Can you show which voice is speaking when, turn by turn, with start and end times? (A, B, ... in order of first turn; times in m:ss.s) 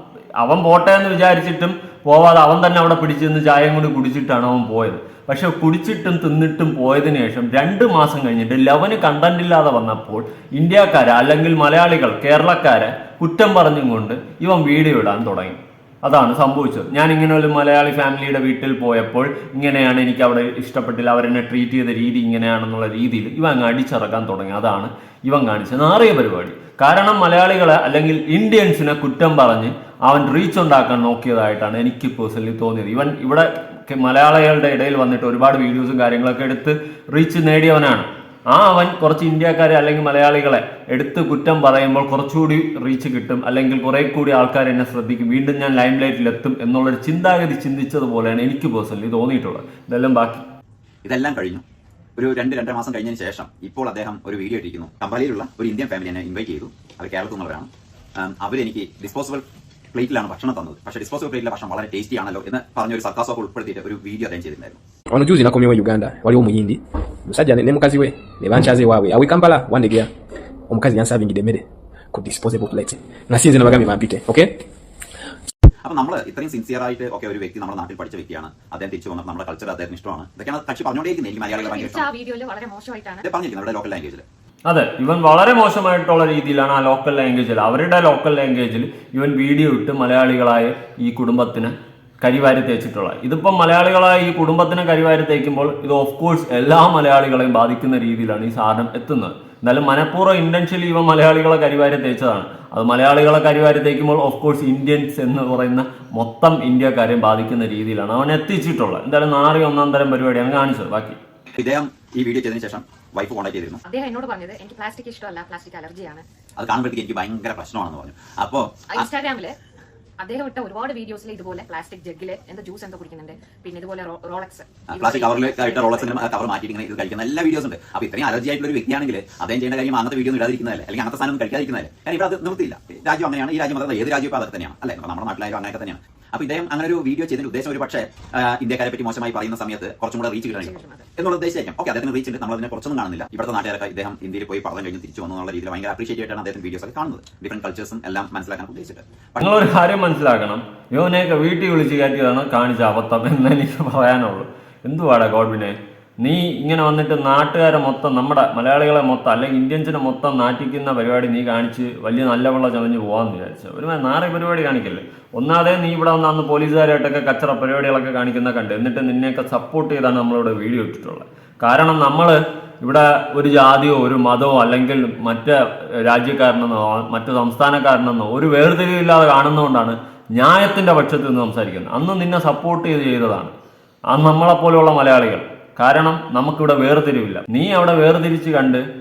0:00.4-0:50.4 A
0:51.0-0:51.6 B
0:52.2-1:04.8 B
1:05.1-1:10.1 C
1:10.7-1:14.5 C
1:15.8-1:22.1 B
1:21.5-1:23.2 D
1:23.2-1:24.2 B
1:24.6-1:51.2 A
1:51.6-1:53.8 B
1:53.8-1:56.2 D
1:56.6-1:59.0 B
1:58.9-1:59.6 D
2:00.2-2:06.3 D
2:04.9-2:29.5 B
2:20.6-2:21.1 D
2:29.4-3:03.5 A
3:04.1-3:08.8 A